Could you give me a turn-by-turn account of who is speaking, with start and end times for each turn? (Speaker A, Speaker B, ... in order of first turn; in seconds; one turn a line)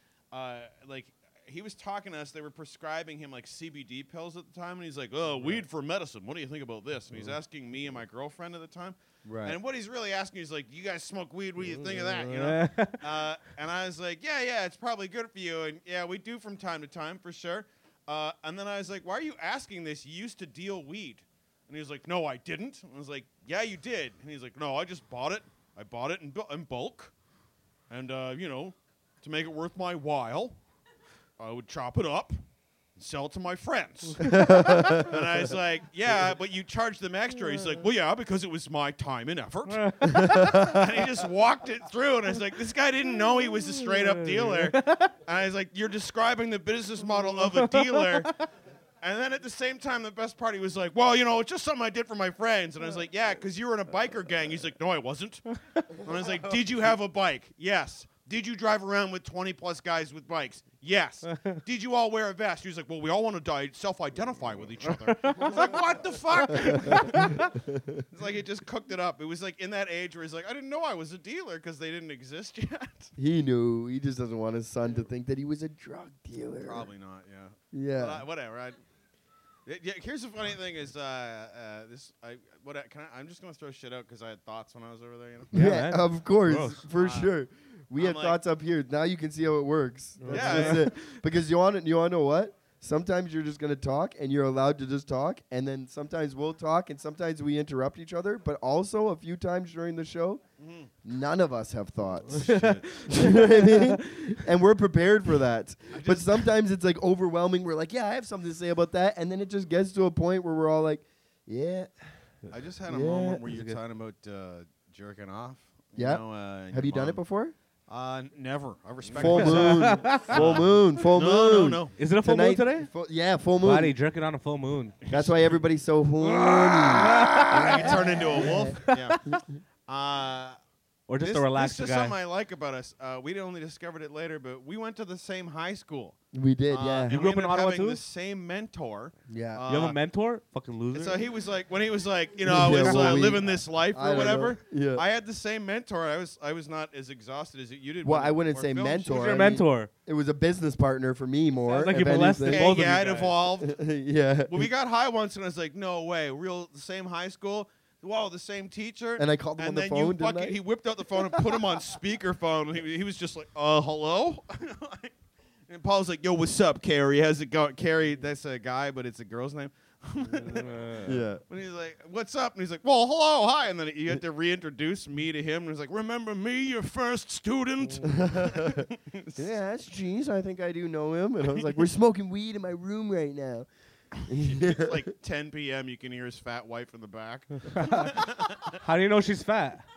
Speaker A: 0.3-27.1
Speaker B: 9.2-9.6
Speaker C: 11.7-13.0
Speaker A: 27.9-30.6
Speaker A: 31.4-32.3
Speaker A: 33.0-48.3
Speaker B: 34.2-35.2
Speaker C: 34.2-34.6
Speaker C: 39.7-40.8
Speaker B: 40.1-40.8
Speaker C: 43.9-45.1
Speaker C: 47.4-48.4
Speaker A: 49.0-67.4
Speaker C: 61.3-61.6
Speaker C: 64.8-65.8
Speaker C: 66.5-67.5
Speaker B: 66.9-68.0
Speaker A: 68.1-73.1
Speaker B: 73.2-76.9
Speaker A: 76.6-78.8
Speaker B: 77.7-78.2
Speaker A: 79.7-85.5
Speaker B: 85.5-100.4
Speaker C: 85.5-86.8
Speaker A: 86.9-87.3
Speaker A: 88.0-88.4
Speaker C: 90.2-91.1
Speaker A: 90.3-90.9
Speaker A: 100.6-100.9
Speaker B: 101.0-111.9
Speaker C: 102.2-104.4
Speaker A: 102.5-102.8
Speaker A: 105.9-106.4
Speaker A: 112.5-117.2
Speaker B: 112.9-113.4
Speaker C: 113.5-113.8
Speaker B: 116.0-117.5
Speaker A: 117.9-121.9
Speaker B: 119.1-123.9
Speaker C: 119.2-120.6
Speaker C: 122.0-122.9
Speaker C: 123.6-125.0
Speaker A: 125.0-125.5
Speaker B: 125.1-129.4
Speaker C: 126.4-129.4
Speaker A: 126.8-129.3
Speaker A: 129.9-130.6
Speaker C: 131.1-132.1
Speaker A: 131.2-136.2
Speaker B: 136.3-137.2
Speaker A: 136.7-140.0
Speaker C: 137.1-138.0
Speaker B: 139.3-139.6
Speaker C: 139.7-141.2
Speaker A: 140.9-149.2
Speaker B: 142.4-145.0
Speaker C: 142.7-143.3
Speaker B: 148.0-152.7
Speaker C: 149.1-149.9
Speaker C: 151.7-153.3
Speaker A: 152.4-153.8
Speaker B: 153.5-154.7
Speaker A: 154.5-165.1
Speaker B: 159.2-160.6
Speaker A: 165.7-170.9
Speaker C: 170.2-171.2
Speaker B: 171.0-171.4
Speaker A: 171.5-179.5
Speaker B: 178.0-183.7
Speaker B: 184.3-185.1
Speaker A: 184.4-188.8
Speaker C: 187.7-188.2
Speaker C: 188.8-189.8